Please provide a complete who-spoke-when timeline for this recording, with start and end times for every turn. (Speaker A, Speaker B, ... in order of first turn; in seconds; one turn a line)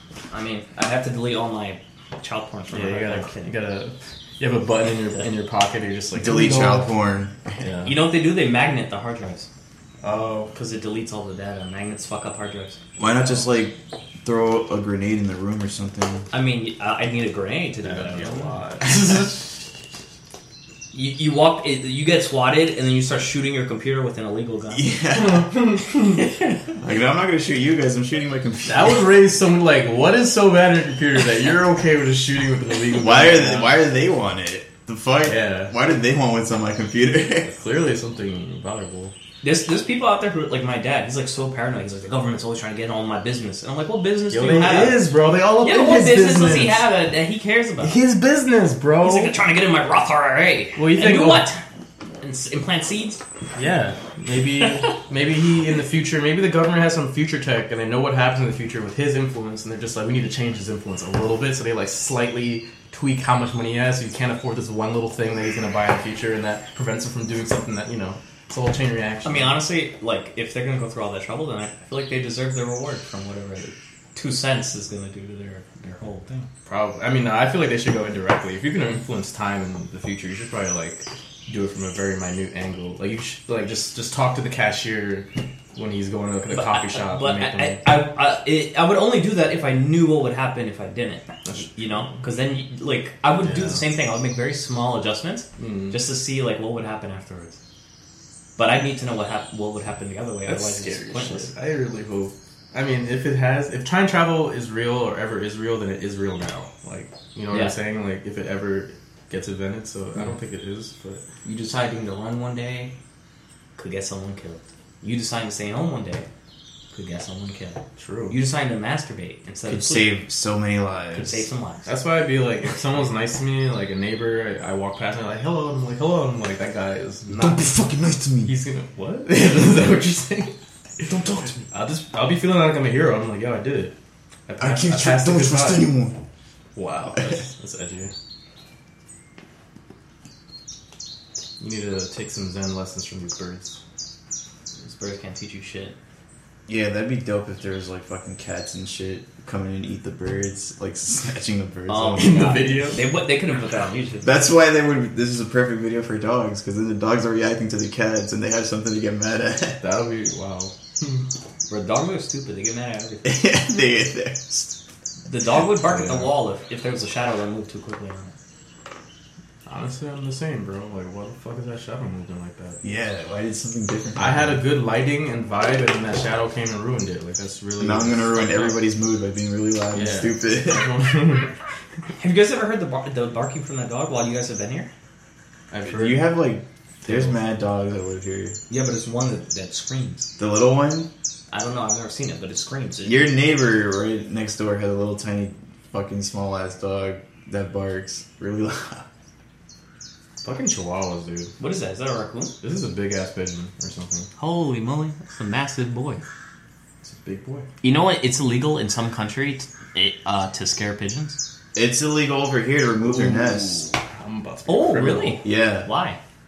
Speaker A: 0.3-3.6
Speaker B: 2.7-6.9
Speaker C: 6.1-7.4
Speaker B: 7.6-7.9
Speaker A: 7.8-9.5
Speaker B: 10.0-10.5
Speaker A: 10.5-12.8
Speaker C: 13.0-16.3
Speaker A: 16.3-18.9
Speaker B: 17.8-19.3
Speaker A: 20.9-24.9
Speaker C: 24.7-25.5
Speaker B: 25.1-26.2
Speaker A: 26.2-26.6
Speaker C: 26.8-29.1
Speaker B: 28.6-33.7
Speaker C: 33.0-37.5
Speaker B: 35.2-35.7
Speaker B: 37.4-39.1
Speaker A: 39.4-45.0
Speaker B: 44.3-46.8
Speaker A: 45.6-48.0
Speaker B: 47.8-49.3
Speaker A: 49.0-51.6
Speaker B: 50.8-51.5
Speaker A: 52.2-53.2
Speaker B: 53.5-69.6
Speaker A: 54.6-54.9
Speaker A: 69.2-76.5
Speaker B: 76.7-87.9
Speaker A: 86.5-97.6
Speaker B: 91.4-92.2
Speaker B: 93.4-93.8
Speaker B: 95.6-96.0
Speaker A: 98.6-101.5
Speaker B: 100.4-111.2
Speaker A: 107.5-107.8
Speaker A: 111.4-112.9
Speaker A: 113.8-116.3
Speaker A: 116.9-120.1
Speaker B: 118.0-118.4
Speaker C: 119.7-121.5
Speaker A: 121.1-121.9
Speaker B: 121.8-127.6
Speaker C: 127.3-128.5
Speaker B: 128.4-131.1
Speaker C: 131.0-131.7
Speaker B: 131.7-133.9
Speaker B: 134.5-135.9
Speaker C: 134.6-136.2
Speaker B: 136.7-138.1
Speaker B: 141.6-143.8
Speaker A: 144.8-145.9
Speaker C: 146.7-152.8
Speaker A: 151.9-154.3
Speaker B: 152.1-153.0
Speaker C: 154.2-159.8
Speaker B: 159.8-161.2
Speaker A: 161.7-163.4
Speaker C: 163.2-164.8
Speaker A: 165.2-168.3
Speaker B: 165.8-166.3
Speaker B: 169.7-172.8
Speaker C: 172.8-174.6
Speaker B: 174.2-178.7
Speaker C: 177.8-180.9
Speaker B: 179.9-181.5
Speaker A: 182.2-184.9
Speaker B: 185.7-186.3
Speaker C: 185.9-188.6
Speaker B: 187.0-187.3
Speaker A: 188.7-190.3
Speaker C: 190.4-191.1
Speaker A: 191.5-193.2
Speaker C: 193.0-199.0
Speaker B: 200.4-201.5
Speaker A: 201.6-202.5
Speaker B: 202.6-204.3
Speaker A: 204.4-206.2
Speaker B: 207.0-207.7
Speaker A: 207.8-211.4
Speaker C: 211.7-213.9
Speaker B: 213.0-215.4
Speaker A: 214.7-216.2
Speaker C: 215.4-215.9